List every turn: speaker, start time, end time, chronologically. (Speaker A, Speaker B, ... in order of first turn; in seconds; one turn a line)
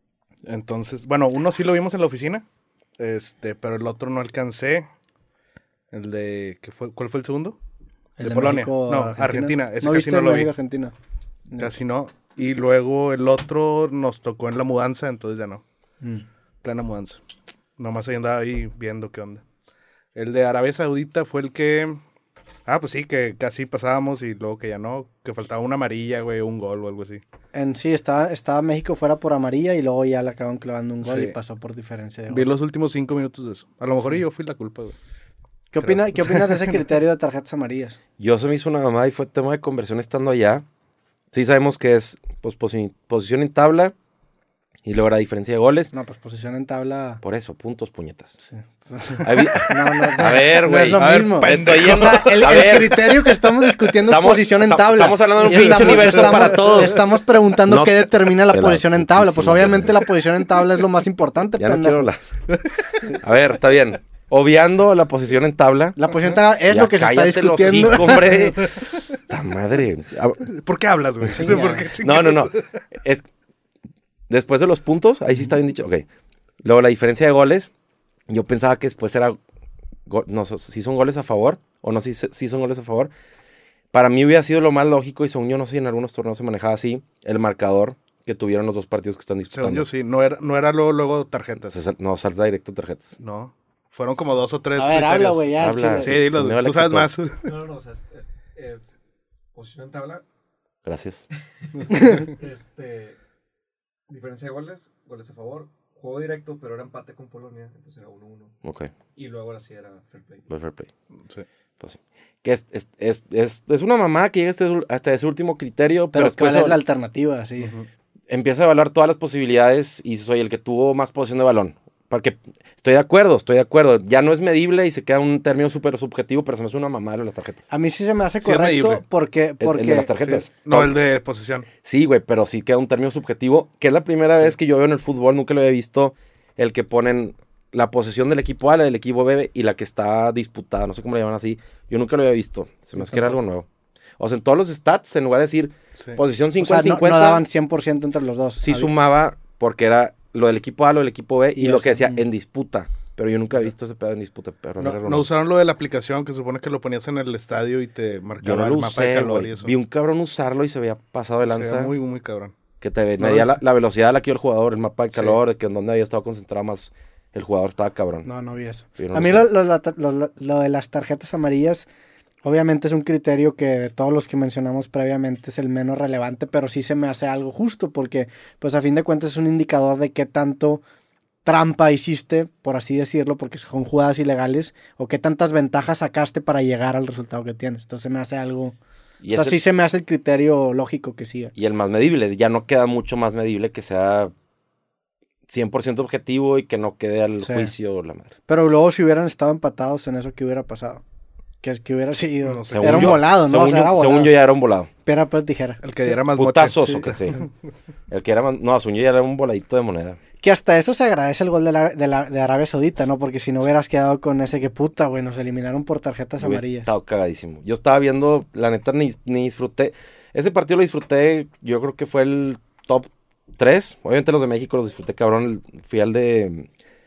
Speaker A: 0.5-2.5
Speaker A: 3.0-4.9
Speaker A: 5.9-7.6
Speaker B: 8.2-10.9
Speaker A: 8.2-10.5
Speaker A: 11.6-15.6
Speaker A: 16.6-17.2
Speaker A: 17.8-19.4
Speaker A: 20.1-22.0
Speaker A: 22.7-27.2
Speaker B: 27.5-32.5
Speaker A: 31.0-31.4
Speaker A: 32.3-35.0
Speaker B: 35.7-38.0
Speaker A: 35.8-36.8
Speaker C: 38.2-40.6
Speaker C: 41.3-43.9
Speaker C: 44.8-45.9
Speaker B: 45.9-47.2
Speaker C: 47.2-48.4
Speaker B: 48.5-62.1
Speaker C: 49.2-53.3
Speaker A: 50.9-52.8
Speaker C: 54.1-57.0
Speaker A: 55.5-56.4
Speaker C: 57.7-60.0
Speaker C: 61.6-62.2
Speaker C: 63.0-66.1
Speaker B: 66.0-68.5
Speaker C: 66.7-68.8
Speaker C: 69.3-70.4
Speaker A: 70.5-72.7
Speaker B: 71.3-71.9
Speaker C: 71.5-73.2
Speaker C: 74.3-76.0
Speaker C: 76.6-77.7
Speaker C: 78.3-79.4
Speaker C: 80.1-83.1
Speaker C: 83.9-89.9
Speaker A: 89.5-91.8
Speaker C: 91.7-93.1
Speaker A: 93.2-97.5
Speaker B: 94.8-96.2
Speaker C: 95.6-97.1
Speaker D: 97.4-99.0
Speaker D: 99.5-100.2
Speaker C: 100.8-101.2
Speaker D: 101.6-103.2
Speaker D: 104.1-108.5
Speaker C: 108.6-108.9
Speaker D: 109.1-110.5
Speaker C: 110.5-110.9
Speaker C: 111.8-116.8
Speaker B: 116.1-117.8
Speaker A: 117.6-117.9
Speaker C: 118.3-127.7
Speaker B: 127.7-130.1
Speaker A: 128.4-129.0
Speaker C: 129.6-130.9
Speaker A: 130.2-131.7
Speaker C: 131.8-143.7
Speaker B: 143.0-143.4
Speaker C: 144.2-147.4
Speaker B: 146.6-148.9
Speaker C: 148.6-155.3
Speaker B: 151.6-152.2
Speaker A: 154.8-159.8
Speaker C: 158.4-161.9
Speaker A: 161.5-162.5
Speaker C: 162.8-168.3
Speaker A: 163.2-163.6
Speaker A: 165.1-165.4
Speaker B: 168.2-171.9
Speaker C: 169.0-169.4
Speaker B: 172.4-180.8
Speaker B: 181.4-188.8
Speaker C: 189.2-189.6
Speaker B: 189.3-191.5
Speaker C: 191.6-194.3
Speaker C: 195.5-198.3
Speaker B: 197.4-197.7
Speaker B: 198.5-201.0
Speaker B: 201.6-204.3
Speaker A: 202.4-203.2
Speaker C: 202.7-204.9
Speaker B: 205.0-206.1
Speaker A: 205.8-207.4
Speaker C: 206.3-207.4
Speaker C: 208.1-210.2
Speaker B: 210.4-216.9
Speaker C: 216.4-226.7